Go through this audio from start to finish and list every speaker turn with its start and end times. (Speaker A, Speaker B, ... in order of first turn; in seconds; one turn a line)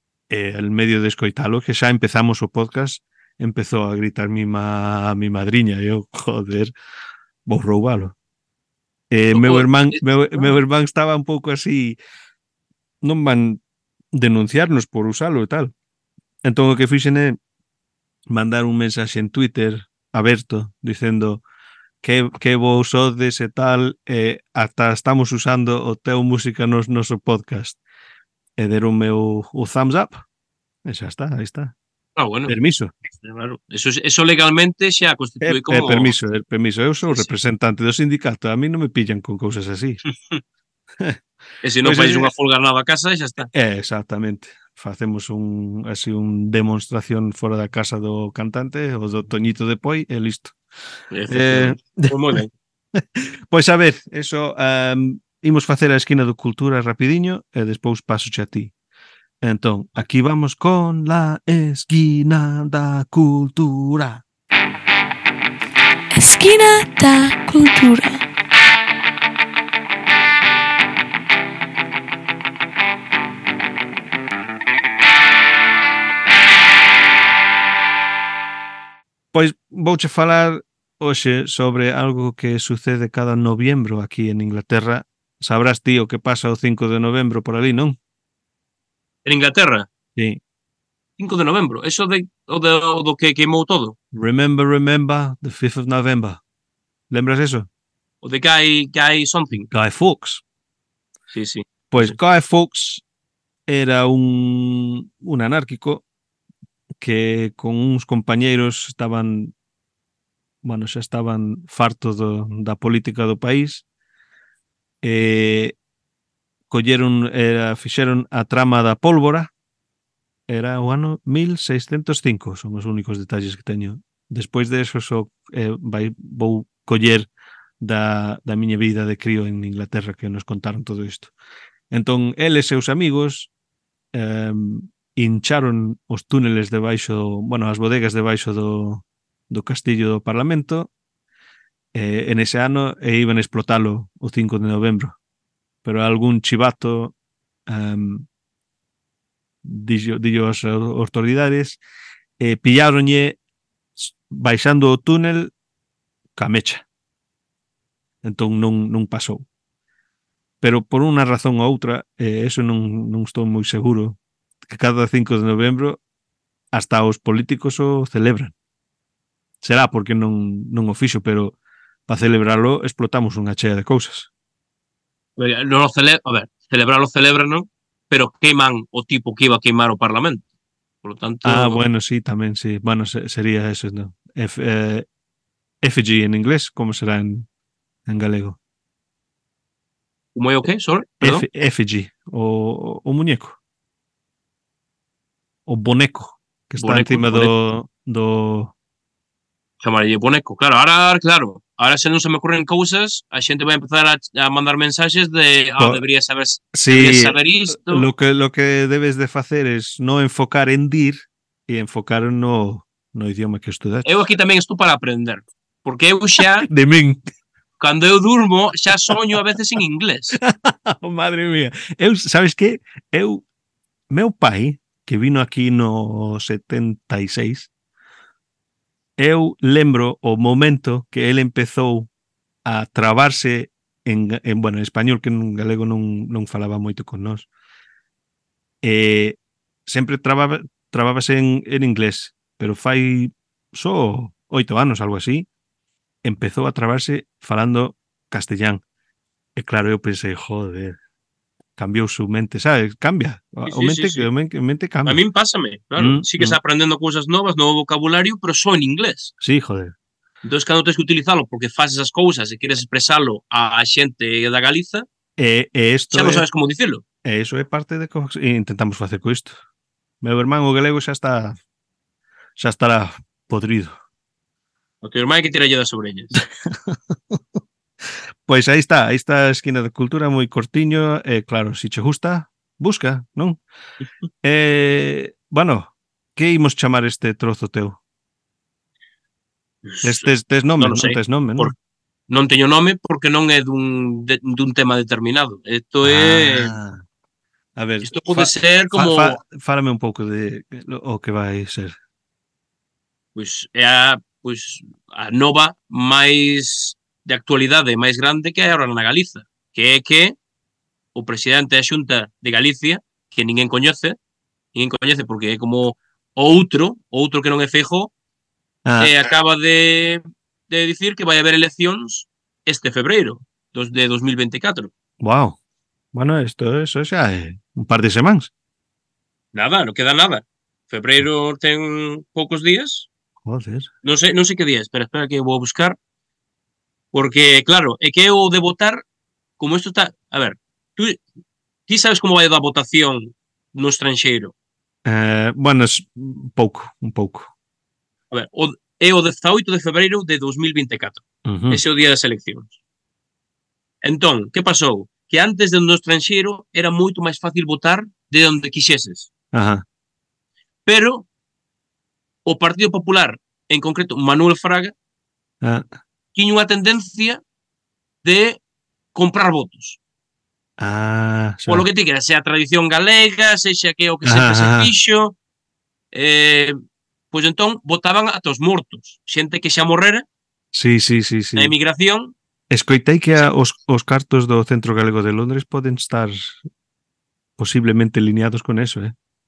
Speaker A: 0.3-6.7
Speaker A: 7.5-8.2
Speaker A: 9.1-12.0
Speaker B: 9.3-10.6
Speaker A: 13.0-13.6
Speaker A: 14.1-15.7
Speaker A: 16.4-17.4
Speaker A: 18.3-21.4
Speaker A: 22.0-27.8
Speaker A: 28.6-30.2
Speaker A: 30.8-31.7
Speaker B: 32.2-32.5
Speaker A: 32.5-32.9
Speaker B: 33.2-36.1
Speaker A: 35.4-40.0
Speaker B: 37.0-37.3
Speaker B: 40.0-40.4
Speaker B: 41.6-43.5
Speaker A: 41.8-42.3
Speaker A: 43.5-50.5
Speaker B: 51.1-52.5
Speaker A: 51.3-52.4
Speaker A: 52.9-58.7
Speaker A: 59.4-64.2
Speaker C: 66.1-68.2
Speaker A: 79.3-88.0
Speaker B: 89.2-89.9
Speaker B: 91.2-94.0
Speaker A: 94.1-96.4
Speaker A: 97.1-97.7
Speaker B: 98.2-99.7
Speaker A: 99.7-100.4
Speaker B: 101.3-102.2
Speaker A: 101.9-103.0
Speaker A: 103.7-106.0
Speaker A: 107.0-109.5
Speaker A: 110.6-113.8
Speaker A: 115.0-115.8
Speaker A: 116.7-119.5
Speaker A: 120.5-127.3
Speaker A: 127.8-131.3
Speaker A: 131.9-133.5
Speaker A: 134.1-140.9
Speaker A: 141.9-145.2
Speaker A: 145.8-147.1
Speaker A: 147.7-148.2
Speaker A: 149.6-151.8
Speaker A: 152.4-153.4
Speaker A: 154.0-155.5
Speaker A: 156.3-156.8
Speaker A: 158.2-159.4
Speaker A: 160.6-166.0
Speaker A: 166.7-168.5
Speaker A: 169.6-171.6
Speaker A: 172.1-174.3
Speaker B: 175.4-180.4
Speaker B: 181.0-181.8
Speaker A: 181.4-185.1
Speaker A: 185.8-187.5
Speaker A: 188.1-188.6
Speaker B: 190.3-191.4
Speaker A: 191.2-193.6
Speaker A: 195.7-198.7
Speaker B: 196.8-197.5
Speaker B: 199.8-208.1
Speaker A: 206.7-214.1
Speaker B: 214.0-216.7
Speaker A: 216.4-217.2
Speaker B: 217.8-220.3
Speaker A: 220.3-223.4
Speaker A: 224.1-227.7
Speaker A: 229.2-232.1
Speaker A: 232.6-237.5
Speaker A: 238.8-245.5
Speaker A: 246.2-248.8
Speaker A: 249.6-251.0
Speaker A: 251.8-255.2
Speaker B: 253.7-254.3
Speaker B: 255.0-259.3
Speaker A: 256.0-256.6
Speaker A: 259.4-259.9
Speaker B: 260.4-265.1
Speaker A: 265.4-266.4
Speaker B: 266.1-267.0
Speaker A: 267.2-269.6
Speaker A: 270.2-271.6
Speaker A: 272.6-273.9
Speaker B: 275.0-276.4
Speaker A: 276.3-277.4
Speaker A: 278.4-283.6
Speaker A: 284.4-288.0
Speaker B: 289.8-291.7
Speaker A: 290.0-291.7
Speaker B: 292.3-296.7
Speaker A: 296.0-297.0
Speaker A: 297.8-301.9
Speaker B: 298.0-299.4
Speaker B: 303.3-310.3
Speaker B: 311.1-314.1
Speaker B: 314.7-318.1
Speaker A: 318.8-319.1
Speaker B: 319.0-324.9
Speaker A: 325.2-325.6
Speaker A: 326.1-328.5
Speaker B: 329.5-333.1
Speaker A: 333.4-333.9
Speaker B: 334.0-336.0
Speaker B: 337.1-339.0
Speaker B: 339.6-341.2
Speaker B: 341.9-344.5
Speaker A: 345.0-347.5
Speaker B: 348.3-352.7
Speaker A: 351.4-351.8
Speaker B: 354.0-359.3
Speaker A: 359.5-359.8
Speaker B: 360.9-361.3
Speaker B: 362.4-364.9
Speaker A: 365.6-365.9
Speaker B: 366.3-367.4
Speaker B: 368.2-368.6
Speaker B: 369.1-370.0
Speaker A: 370.8-371.9
Speaker B: 371.7-375.4
Speaker A: 374.2-374.9
Speaker B: 376.1-376.8
Speaker B: 377.3-380.2
Speaker A: 380.7-381.7
Speaker B: 381.6-382.3
Speaker A: 382.7-386.6
Speaker A: 387.6-389.1